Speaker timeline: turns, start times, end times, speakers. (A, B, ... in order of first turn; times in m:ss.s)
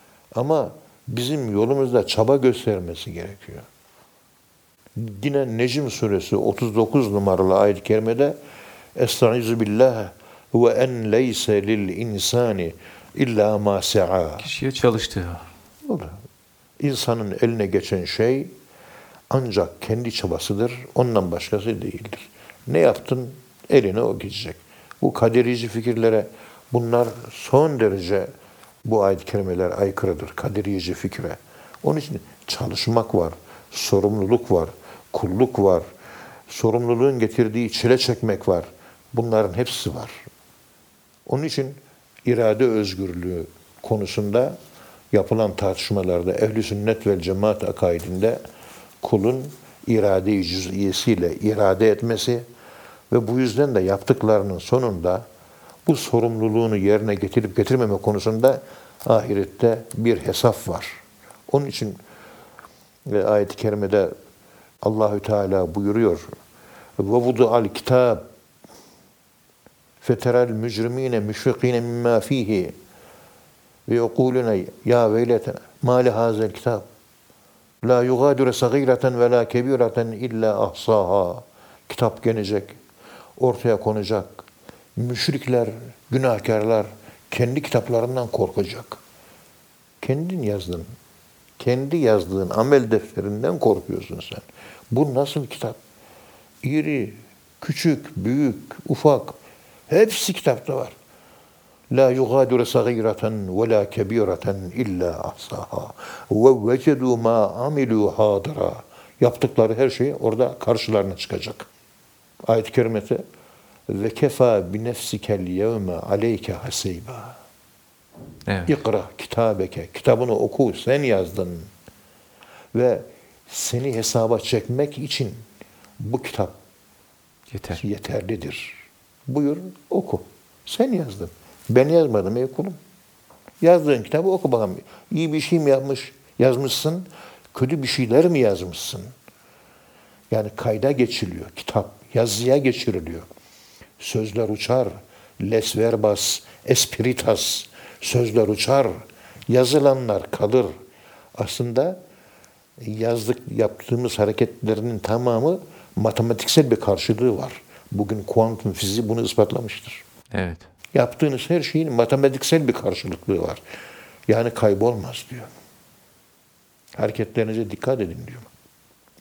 0:00.3-0:03.7 A
0:05.0-0:08.4 A
0:09.0-0:14.4 A
0:14.4-0:15.5 B
0:15.8-0:16.1 A
0:16.8-0:18.5 A
0:19.3-0:28.3 A
0:28.8-0:35.8 A
0:36.5-0:40.2 A
0:41.2-0:44.6 A
0:45.1-0:48.4 A
0:49.0-0:52.5 A
0:53.1-0:55.2 A
0:55.8-1:02.0 A
1:03.0-1:04.1 A
1:04.8-1:06.2 A
1:07.0-1:08.2 A
1:10.0-1:12.7 A
1:13.9-1:16.8 A
1:17.8-1:22.8 A
1:23.4-1:24.4 A
1:25.0-1:29.0 A
1:30.0-1:30.9 A
1:31.6-1:35.8 A
1:36.6-1:39.4 A
1:39.9-1:40.9 A
1:41.9-1:51.7 A
1:52.4-1:53.2 A
1:53.9-1:57.4 A
1:58.5-1:58.7 B
1:58.7-2:01.7 A
2:02.7-2:05.4 A
2:06.0-2:06.5 A
2:07.5-2:07.8 B
2:07.8-2:12.8 A
2:13.6-2:19.1 A
2:20.3-2:23.2 A
2:24.0-2:30.7 A
2:31.3-2:32.0 A
2:32.8-2:40.0 A
2:40.3-2:40.7 B
2:40.9-2:43.6 A
2:44.3-2:45.5 A
2:47.0-2:48.5 A